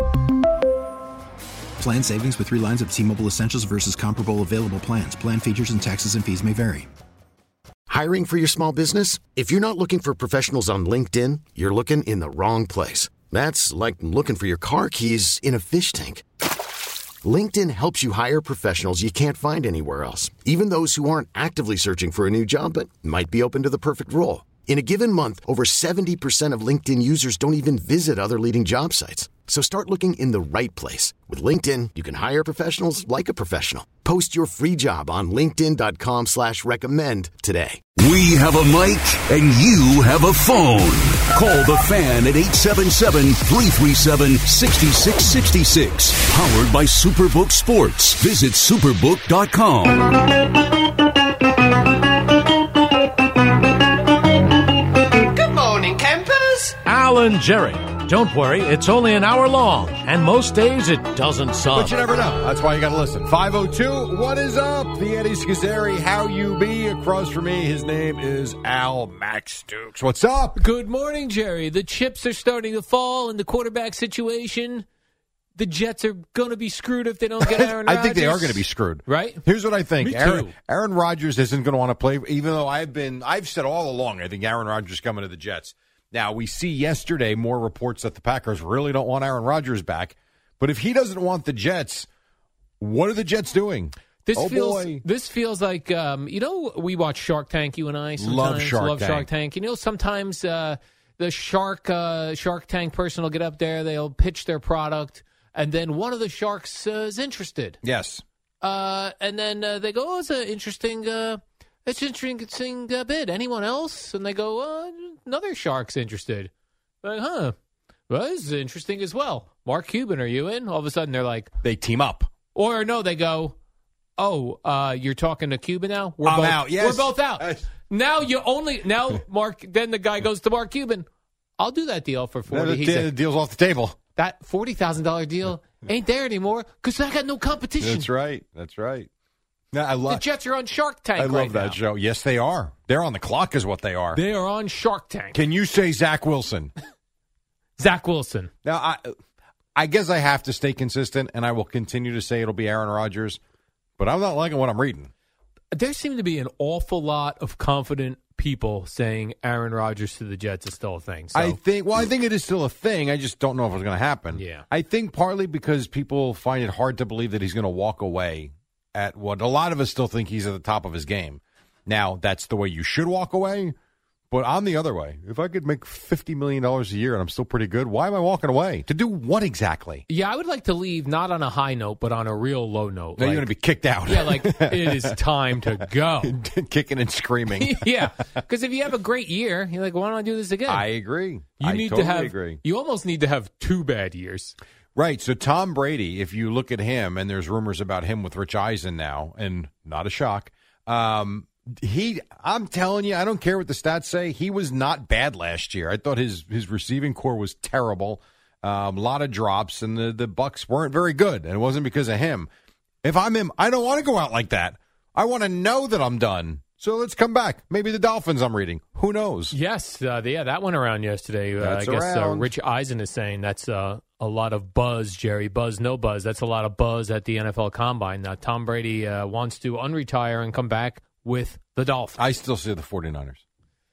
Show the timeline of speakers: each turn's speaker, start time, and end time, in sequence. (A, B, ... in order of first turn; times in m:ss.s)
0:02.0-0:06.8 A
0:07.9-0:16.2 B
0:17.2-0:37.8 B
0:38.0-0:50.0 C
0:55.4-1:02.0 D
1:01.7-1:10.6 E
1:10.6-1:14.8 F
1:15.6-1:19.4 F
1:17.4-1:32.1 E
1:20.0-1:20.5 F
1:32.8-1:35.0 E
1:34.2-1:47.8 F
1:38.2-1:39.3 E
1:47.8-1:48.2 E
1:48.6-1:56.5 F
1:57.0-1:57.5 F
1:58.1-2:01.5 F
2:01.6-2:02.3 E
2:02.5-2:03.6 F
2:04.2-2:11.1 F
2:06.2-2:07.6 E
2:11.6-2:13.1 F
2:12.5-2:14.0 E
2:14.1-2:18.1 F
2:17.8-2:19.1 E
2:19.7-2:20.2 E
2:20.1-2:21.8 F
2:21.2-2:24.2 E
2:24.1-2:25.4 F
2:25.3-2:26.7 E
2:27.8-2:28.5 F
2:28.6-2:29.0 E
2:29.8-2:33.4 E
2:34.0-2:35.1 E
2:35.7-2:41.6 F
2:41.3-2:53.7 E
2:44.3-2:44.6 F
2:54.3-3:00.0 E
3:00.1-3:03.5 F
3:03.2-3:07.9 E
3:04.0-3:06.3 F
3:07.5-3:10.9 F
3:10.7-3:12.6 E
3:11.6-3:14.6 F
3:15.0-3:32.5 E
3:33.0-3:39.5 E
3:39.5-3:52.2 F
3:41.6-3:42.5 E
3:52.2-3:53.4 E